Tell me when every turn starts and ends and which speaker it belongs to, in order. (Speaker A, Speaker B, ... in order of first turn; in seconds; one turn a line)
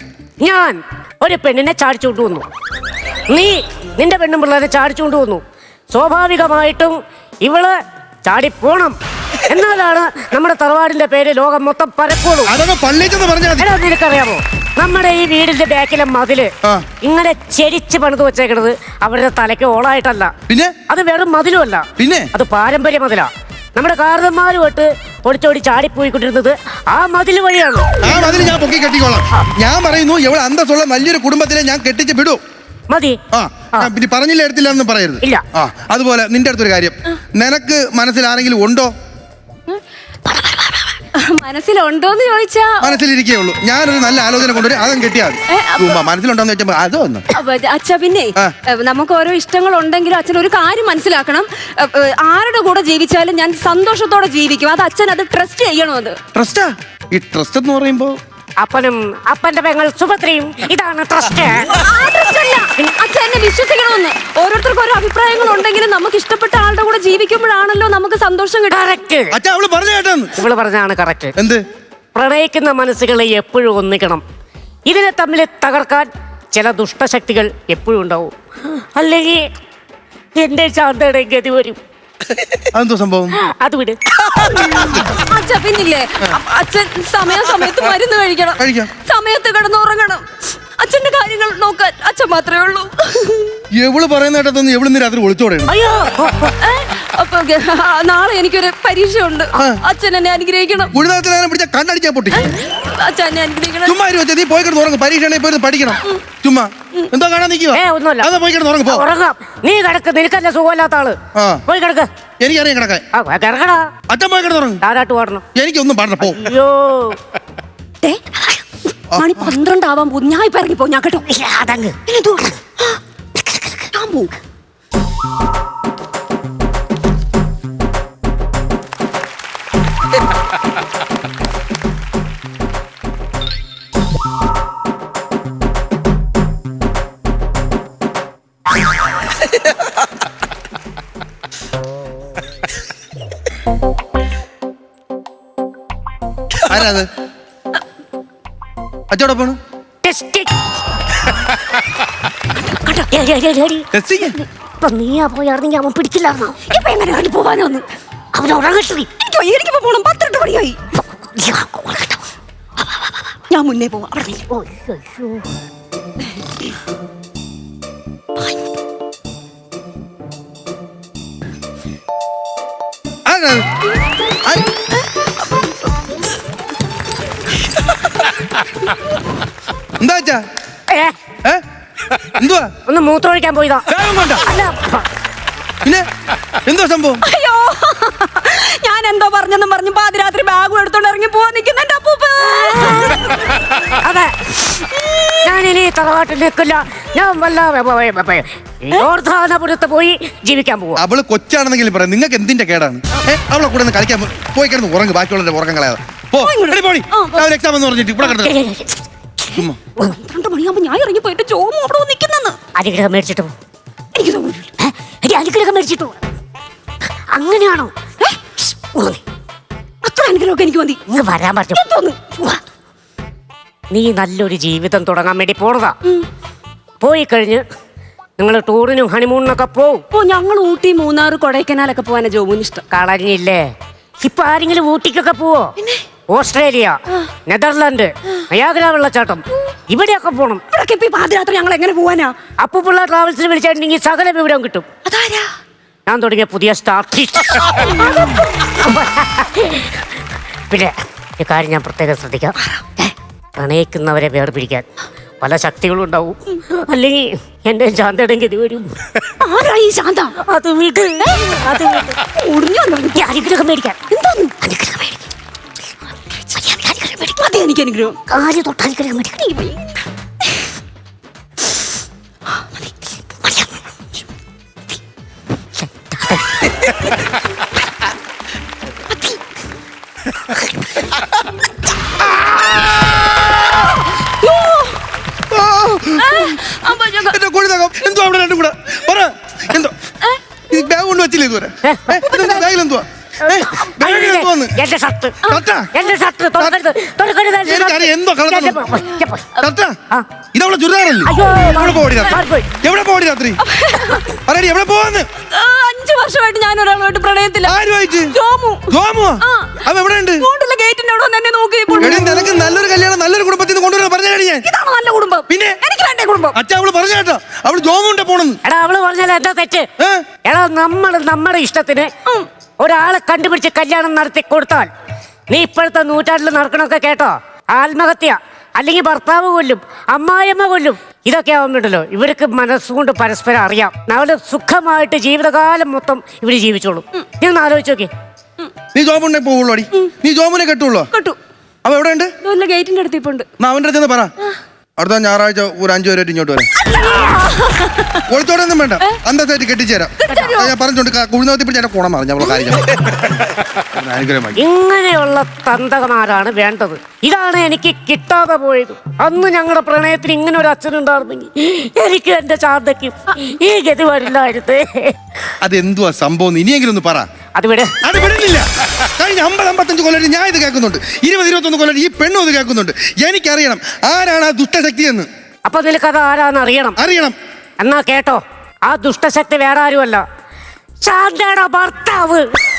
Speaker A: 0.4-2.5
Speaker A: 3.3-9.0
Speaker A: 9.5-12.6
Speaker B: 12.5-13.7
Speaker A: 13.6-16.5
Speaker A: 17.0-20.3
Speaker B: 20.5-20.7
Speaker A: 20.9-28.0
Speaker B: 22.0-22.3
Speaker B: 28.0-32.4
Speaker A: 32.9-33.2
Speaker B: 33.3-38.9
Speaker C: 40.4-42.7
Speaker B: 42.8-47.3
Speaker C: 45.5-46.0
Speaker C: 47.3-56.2
Speaker B: 56.3-58.1
Speaker A: 58.6-61.9
Speaker C: 61.8-68.8
Speaker A: 68.7-69.3
Speaker B: 69.3-70.3
Speaker A: 70.3-71.3
Speaker A: 72.1-74.2
Speaker A: 74.9-79.4
Speaker A: 80.4-81.8
Speaker B: 82.7-83.4
Speaker A: 83.3-84.7
Speaker C: 85.2-90.2
Speaker B: 88.6-88.9
Speaker C: 90.8-93.5
Speaker B: 93.7-95.7
Speaker A: 95.7-96.5
Speaker C: 96.6-100.9
Speaker B: 100.9-102.5
Speaker C: 102.7-103.9
Speaker B: 103.8-109.1
Speaker A: 107.7-108.3
Speaker A: 108.9-112.1
Speaker B: 111.3-111.6
Speaker B: 112.4-113.0
Speaker A: 113.1-113.9
Speaker B: 114.1-114.8
Speaker A: 114.8-115.4
Speaker B: 115.5-116.5
Speaker A: 116.2-117.2
Speaker C: 118.0-118.7
Speaker B: 119.1-119.5
Speaker C: 119.2-121.2
Speaker A: 121.3-122.5
Speaker C: 122.1-123.0
Speaker A: 123.4-123.9
Speaker C: 123.9-124.3
Speaker B: 146.6-147.1
Speaker B: 149.1-149.6
Speaker A: 150.0-150.5
Speaker C: 152.6-153.1
Speaker A: 153.1-153.9
Speaker B: 153.9-154.4
Speaker A: 154.8-156.7
Speaker C: 156.7-157.8
Speaker A: 158.3-159.1
Speaker C: 159.2-160.8
Speaker A: 161.0-162.2
Speaker C: 163.4-164.4
Speaker A: 164.5-165.5
Speaker B: 173.3-173.7
Speaker B: 180.0-180.4
Speaker A: 180.9-181.2
Speaker B: 182.3-182.7
Speaker A: 182.9-185.1
Speaker B: 183.9-184.5
Speaker B: 186.7-187.2
Speaker C: 187.3-193.4
Speaker A: 192.5-193.3
Speaker A: 193.9-201.0
Speaker B: 201.0-208.5
Speaker C: 206.4-207.4
Speaker A: 208.2-210.2
Speaker C: 210.1-212.6
Speaker A: 212.8-213.5
Speaker C: 214.2-214.7
Speaker A: 214.8-216.2
Speaker A: 217.3-217.9
Speaker A: 218.7-219.2
Speaker C: 220.0-221.0
Speaker A: 221.1-221.9
Speaker C: 221.8-222.6
Speaker A: 223.9-226.0
Speaker A: 227.0-227.6
Speaker A: 228.4-230.0
Speaker C: 230.1-232.8
Speaker A: 232.9-233.6
Speaker A: 234.2-235.7
Speaker C: 235.8-236.0
Speaker A: 236.3-240.6
Speaker C: 240.7-242.3
Speaker A: 242.6-244.9
Speaker C: 245.1-245.5
Speaker A: 246.1-250.1
Speaker C: 248.0-248.3
Speaker A: 250.7-254.8
Speaker C: 252.6-252.9
Speaker A: 255.4-259.3
Speaker C: 259.4-260.4
Speaker A: 260.4-262.2
Speaker C: 261.3-263.2
Speaker A: 263.1-264.0
Speaker C: 264.1-264.5
Speaker A: 264.6-265.3
Speaker A: 266.4-267.5
Speaker C: 267.4-268.2
Speaker A: 268.3-269.6
Speaker C: 269.5-270.0
Speaker A: 273.4-273.9
Speaker A: 275.8-276.8
Speaker C: 279.1-279.4
Speaker C: 283.9-285.0
Speaker B: 285.5-286.4
Speaker C: 286.2-287.4
Speaker B: 287.2-289.9
Speaker B: 290.7-294.8
Speaker A: 291.8-292.3
Speaker C: 292.3-292.6
Speaker A: 293.4-300.2
Speaker B: 295.5-295.9
Speaker B: 297.6-298.9
Speaker B: 299.6-299.9
Speaker B: 300.5-303.6
Speaker A: 301.2-302.7
Speaker C: 303.7-304.3
Speaker B: 304.4-305.3
Speaker C: 305.5-307.7
Speaker B: 307.6-308.3
Speaker C: 308.4-308.9
Speaker B: 308.9-310.5
Speaker C: 309.4-309.8
Speaker C: 310.4-312.6
Speaker B: 312.0-314.6
Speaker C: 314.7-316.5
Speaker B: 315.5-315.8
Speaker B: 316.5-318.6
Speaker A: 318.6-319.9
Speaker B: 320.0-320.2
Speaker A: 320.4-322.1
Speaker A: 322.8-324.9
Speaker A: 325.5-338.1
Speaker B: 338.9-341.1
Speaker B: 341.9-342.3
Speaker C: 342.4-343.4
Speaker B: 343.6-344.3
Speaker B: 345.0-346.7
Speaker C: 346.9-348.2
Speaker B: 348.3-354.6
Speaker C: 350.2-350.7
Speaker A: 350.3-350.6
Speaker A: 354.6-365.2
Speaker B: 365.6-367.3
Speaker A: 367.6-367.9
Speaker B: 368.0-375.3
Speaker A: 375.7-377.0
Speaker B: 377.0-377.4
Speaker A: 377.8-380.2
Speaker A: 381.0-382.4